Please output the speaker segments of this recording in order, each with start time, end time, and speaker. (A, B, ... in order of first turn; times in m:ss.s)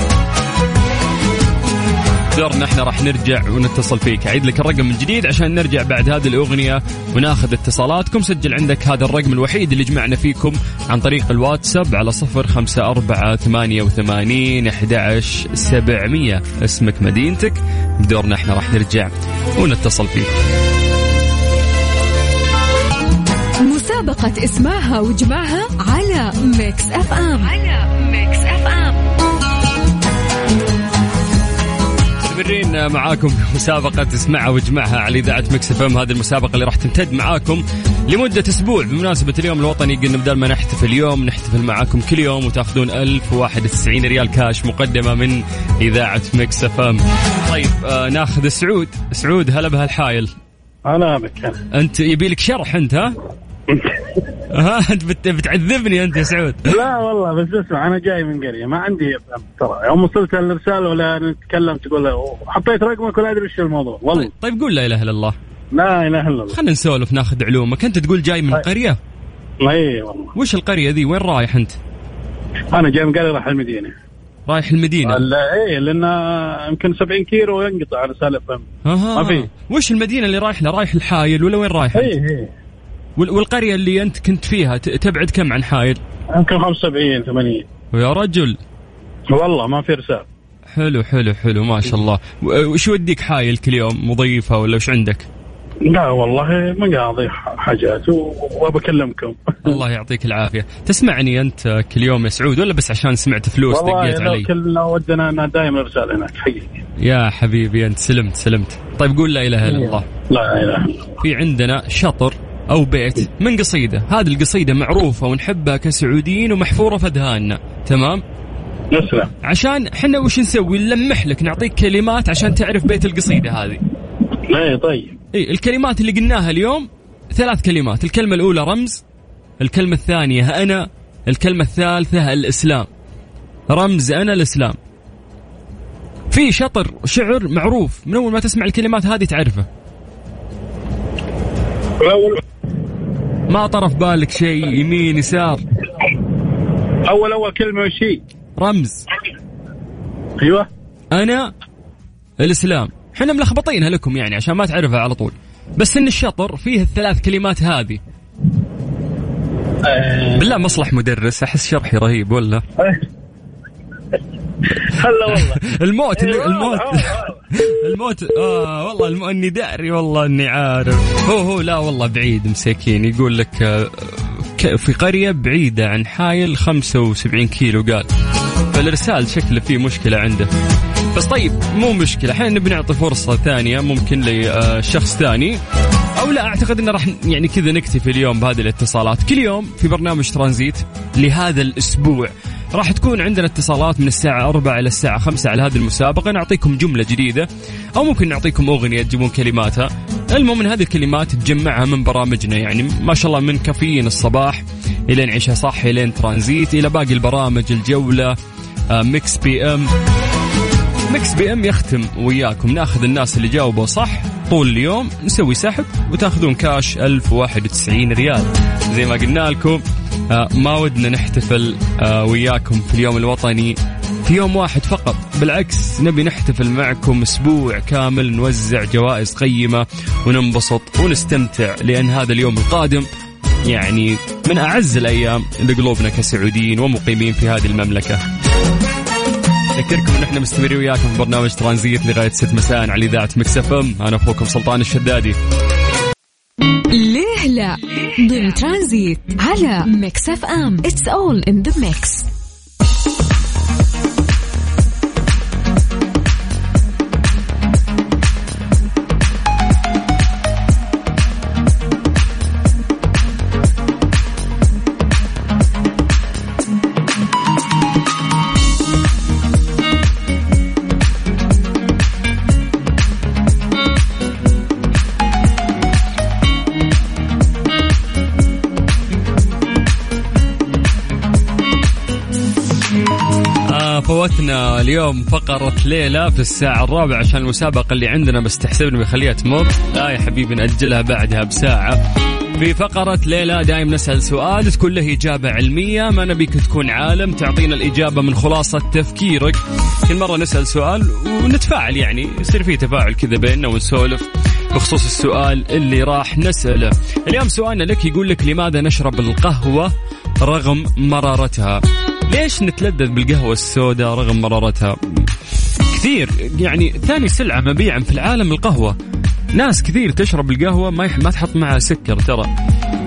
0:02.4-0:20.3 A
0:23.6-0:29.0 B
0:32.2-0:50.3 A
0:50.9-0:51.6 C
0:51.7-0:53.1 A
0:53.7-0:54.0 C
0:54.5-0:56.7 A
0:56.7-1:04.3 C
1:04.1-1:05.4 A
1:05.7-1:06.6 C
1:06.5-1:09.0 A
1:09.6-1:10.3 C
1:10.4-1:11.8 A
1:12.7-1:14.0 C
1:14.5-1:15.2 A
1:15.1-1:18.6 C
1:18.9-1:22.1 A
1:19.2-1:19.5 C
1:22.0-1:22.5 C
1:23.2-1:26.0 A
1:26.3-1:27.6 C
1:27.9-1:28.6 A
1:29.3-1:30.3 C
1:30.7-1:35.3 A
1:35.9-1:39.8 C
1:39.6-1:44.5 A
1:43.7-1:46.8 C
1:47.0-1:50.0 A
1:49.7-1:51.1 C
1:51.2-1:58.2 A
1:58.9-1:59.3 C
1:59.4-2:03.8 A
2:04.5-2:05.1 C
2:05.3-2:09.0 A
2:09.6-2:12.9 A
2:13.7-2:14.8 A
2:16.3-2:19.7 A
2:22.0-2:22.4 C
2:23.5-2:25.6 A
2:27.1-2:28.2 C
2:28.6-2:29.0 A
2:30.4-2:30.7 C
2:31.1-2:31.5 A
2:32.4-2:38.0 A
2:39.8-2:40.6 C
2:40.3-2:42.6 A
2:44.8-2:45.6 C
2:45.3-2:58.1 A
2:46.2-2:47.3 C
2:58.7-3:00.5 A
3:01.1-3:05.6 A
3:06.2-3:28.4 A
3:28.9-3:29.9 A
3:31.1-3:53.1 A
3:53.7-3:58.2 A
3:59.8-4:05.4 A
4:06.9-4:12.3 B
4:43.7-4:52.0 A
4:52.6-5:09.9 A
5:10.4-5:15.3 A
5:15.9-5:19.0 A
5:19.5-5:22.5 A